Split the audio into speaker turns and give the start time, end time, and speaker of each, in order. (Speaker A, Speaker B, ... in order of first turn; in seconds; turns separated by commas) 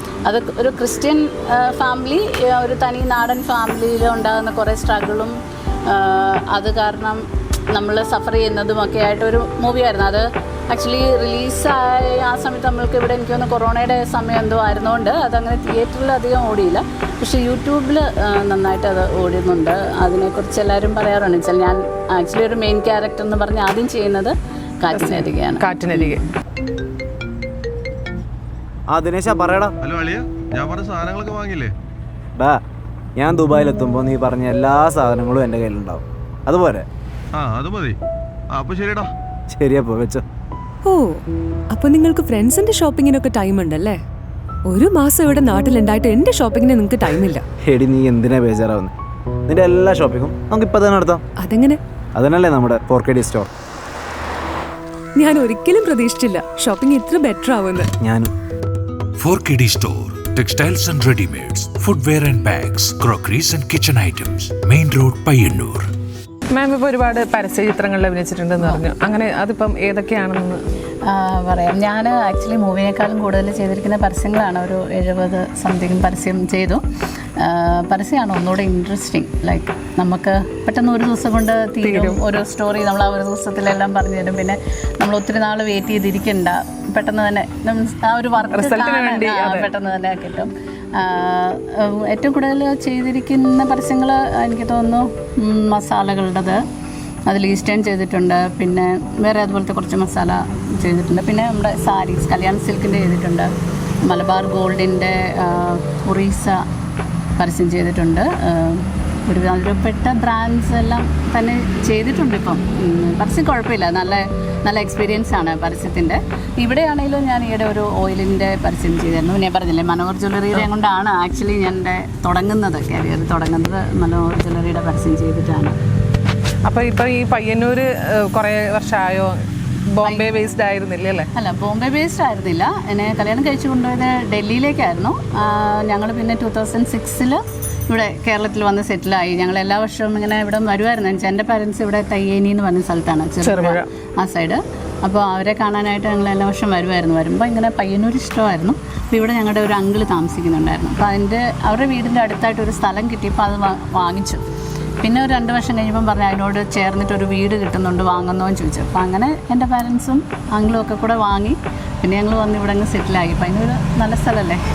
Speaker A: 0.2-5.3, Speaker A: 5.9-26.1, Speaker B: 24.9-26.2, Speaker C: 28.9-29.7, Speaker D: 29.8-31.7, Speaker C: 33.2-36.9, Speaker D: 37.3-38.0, Speaker D: 38.5-39.1, Speaker C: 39.5-40.2, Speaker E: 41.7-44.0, Speaker E: 44.7-47.4, Speaker C: 47.6-48.9, Speaker C: 49.5-51.2, Speaker E: 51.4-51.8, Speaker C: 52.1-53.5, Speaker E: 55.2-57.9, Speaker C: 58.0-58.3, Speaker F: 59.2-65.8, Speaker B: 66.5-70.6, Speaker A: 68.6-68.8, Speaker A: 71.1-76.8, Speaker A: 77.4-96.6, Speaker B: 81.8-82.2, Speaker B: 88.5-89.7, Speaker A: 97.3-103.5, Speaker A: 104.0-106.6, Speaker A: 107.4-125.7, Speaker B: 126.7-129.3, Speaker B: 129.9-131.3, Speaker A: 131.3-154.4, Speaker B: 143.4-143.8, Speaker A: 155.0-164.6